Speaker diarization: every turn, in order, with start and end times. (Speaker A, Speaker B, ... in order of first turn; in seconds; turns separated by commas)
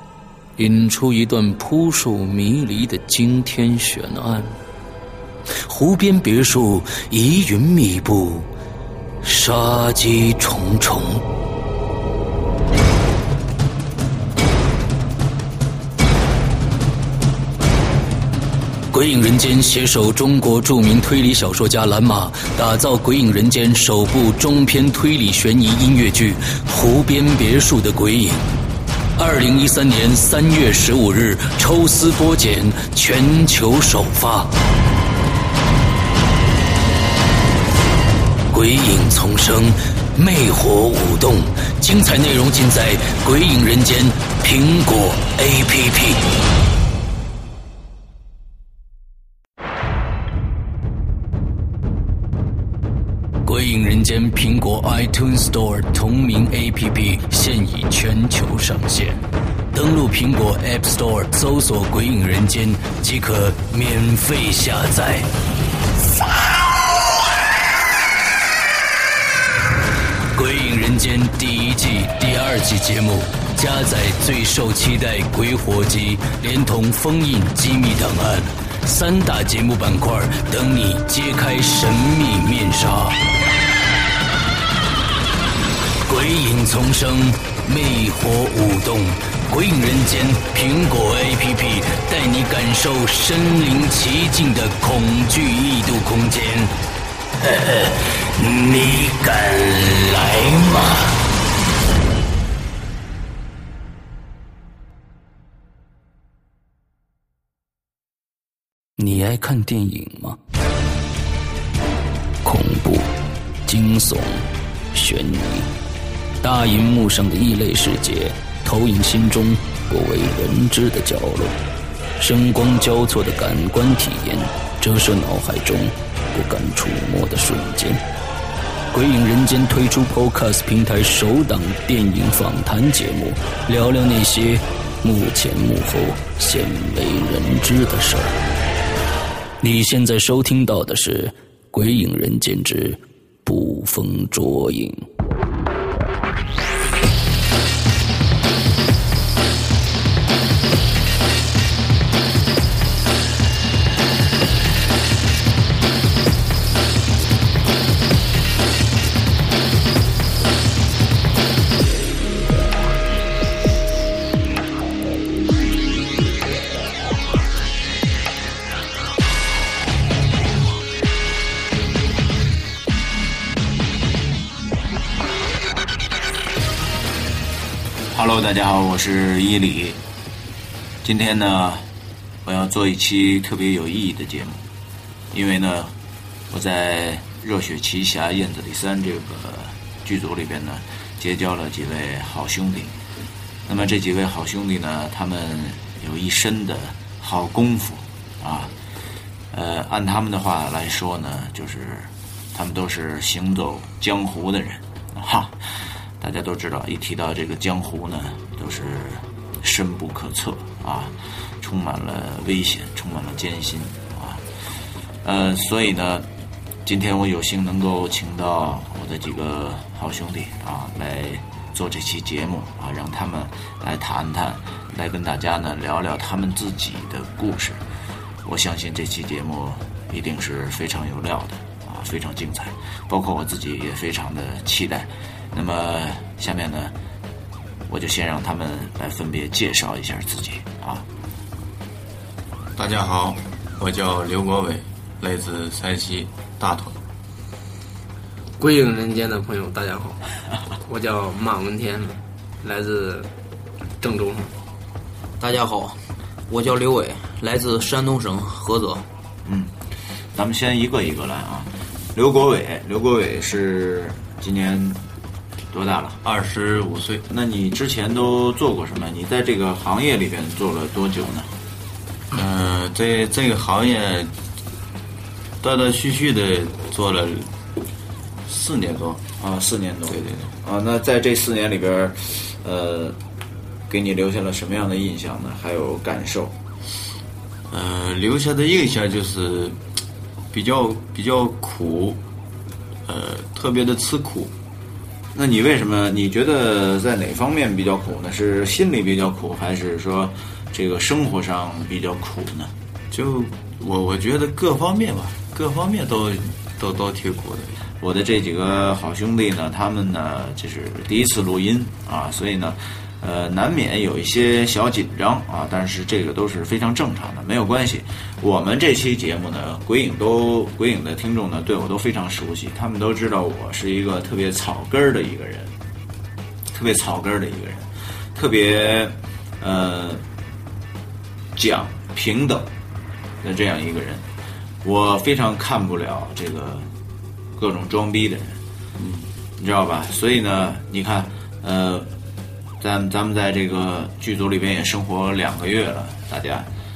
Speaker A: 0.6-4.5, Speaker A: 5.6-8.5, Speaker A: 9.2-11.2, Speaker A: 18.9-28.4, Speaker A: 29.2-34.5, Speaker A: 38.5-46.2, Speaker A: 53.4-59.2, Speaker A: 59.7-65.3, Speaker A: 66.1-66.9, Speaker A: 70.3-83.2, Speaker A: 86.0-96.7, Speaker A: 97.4-101.2, Speaker A: 109.0-110.4, Speaker A: 112.4-113.1, Speaker A: 113.7-115.7, Speaker A: 116.4-121.6, Speaker A: 122.2-128.0, Speaker A: 128.9-138.4, Speaker A: 139.6-145.1, Speaker B: 178.1-180.0, Speaker B: 181.0-181.8, Speaker B: 182.4-184.6, Speaker B: 185.3-185.9, Speaker B: 186.5-192.9, Speaker B: 193.7-198.7, Speaker B: 199.5-205.6, Speaker B: 206.2-214.4, Speaker B: 215.2-216.2, Speaker B: 216.8-227.8, Speaker B: 228.4-236.9, Speaker B: 237.9-241.0, Speaker C: 242.8-246.9, Speaker D: 248.6-250.2, Speaker D: 250.8-253.3, Speaker D: 254.0-254.5, Speaker E: 255.4-259.0, Speaker B: 259.4-259.7, Speaker B: 260.3-265.0, Speaker B: 265.7-266.2, Speaker C: 266.2-267.2, Speaker B: 267.3-271.5, Speaker C: 272.3-274.3, Speaker C: 275.6-277.5, Speaker C: 278.4-279.2, Speaker B: 279.4-283.2, Speaker C: 280.1-280.5, Speaker B: 283.9-286.5, Speaker C: 287.7-289.8, Speaker C: 290.5-292.2, Speaker C: 293.1-294.5, Speaker B: 295.3-302.7, Speaker C: 303.1-307.8, Speaker B: 308.0-325.7, Speaker B: 326.7-330.2, Speaker B: 331.5-332.7, Speaker B: 333.4-334.2, Speaker B: 334.8-336.9, Speaker B: 337.6-338.6, Speaker C: 339.0-339.2, Speaker B: 339.6-342.1, Speaker B: 342.8-346.7